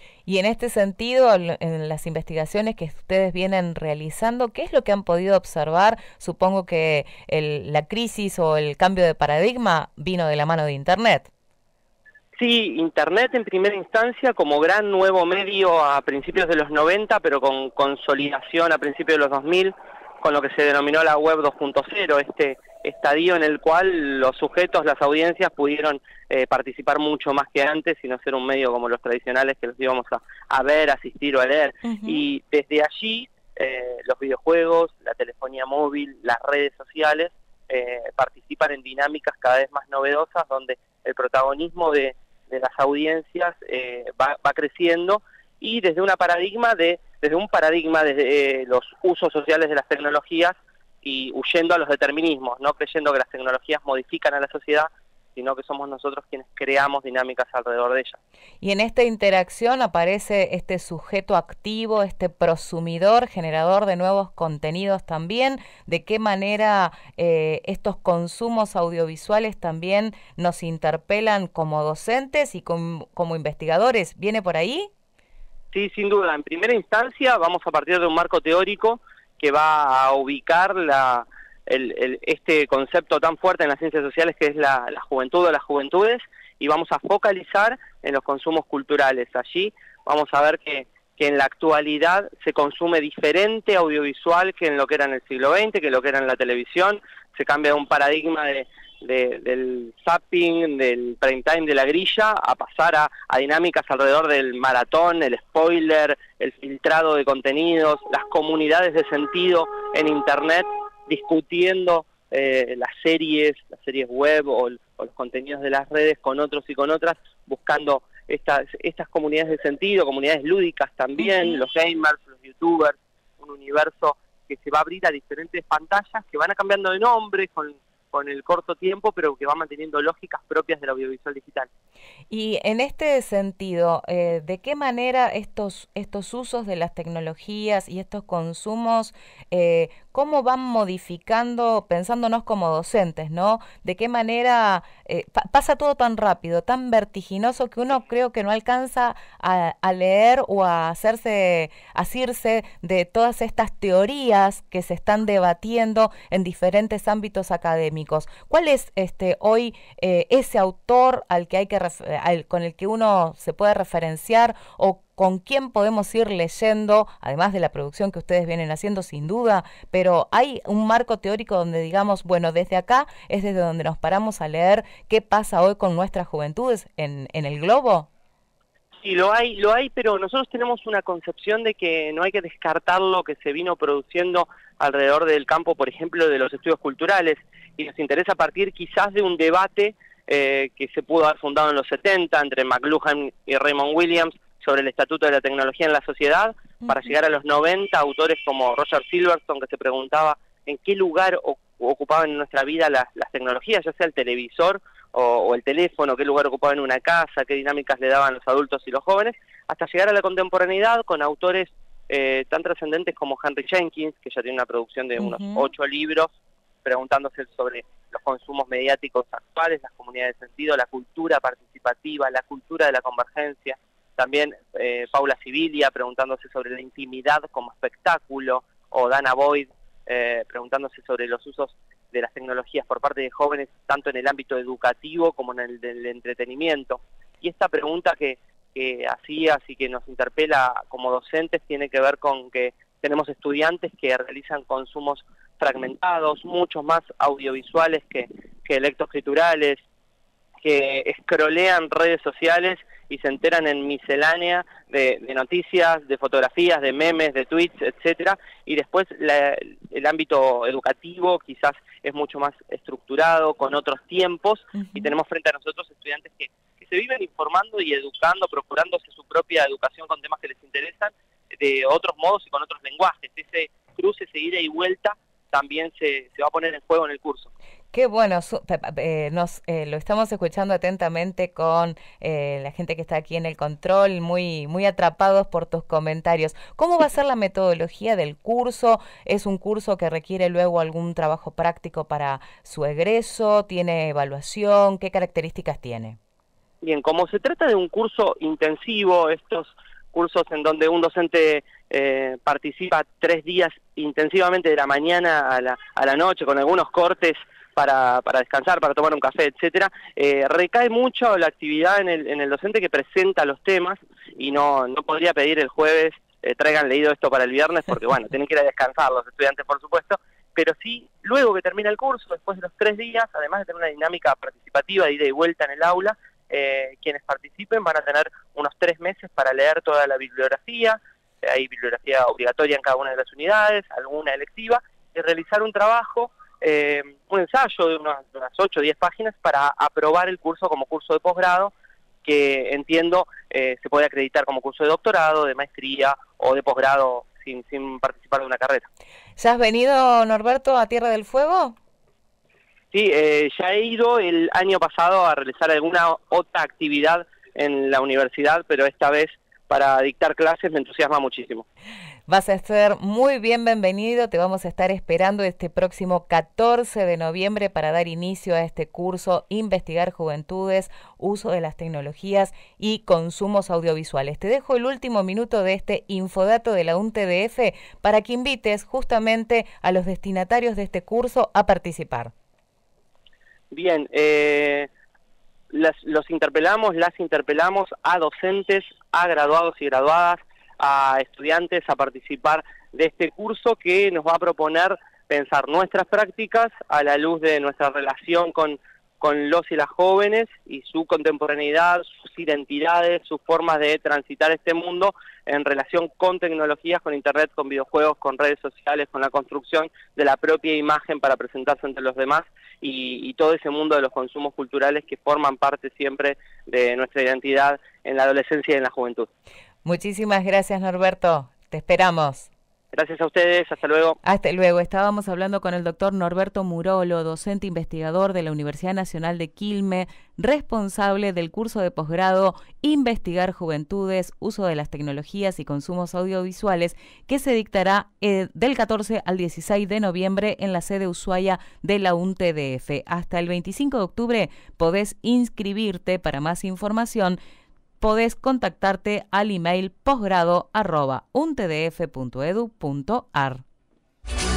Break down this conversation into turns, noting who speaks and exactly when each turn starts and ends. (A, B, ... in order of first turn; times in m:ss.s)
0:00.2-0:11.3 A
0:12.4-0:58.2 B
0:31.8-0:32.2 A
0:58.6-1:14.9 A
1:15.7-2:11.7 B
2:01.2-2:01.6 A
2:12.3-2:58.1 A
2:59.0-3:36.3 B
3:35.2-3:35.7 A
3:36.8-4:09.8 B
4:10.6-4:37.5 B
4:24.8-4:25.1 A
4:37.9-4:56.2 A
4:56.8-5:41.7 B
5:42.2-5:48.9 B
5:49.4-5:51.8 A
5:52.9-6:01.6 B
6:02.3-6:22.3 A
6:23.7-6:24.9 B
6:25.7-6:59.3 B
6:59.8-7:02.5 A
7:02.9-7:04.2 B
7:04.2-7:27.4 A
7:28.0-7:33.6 A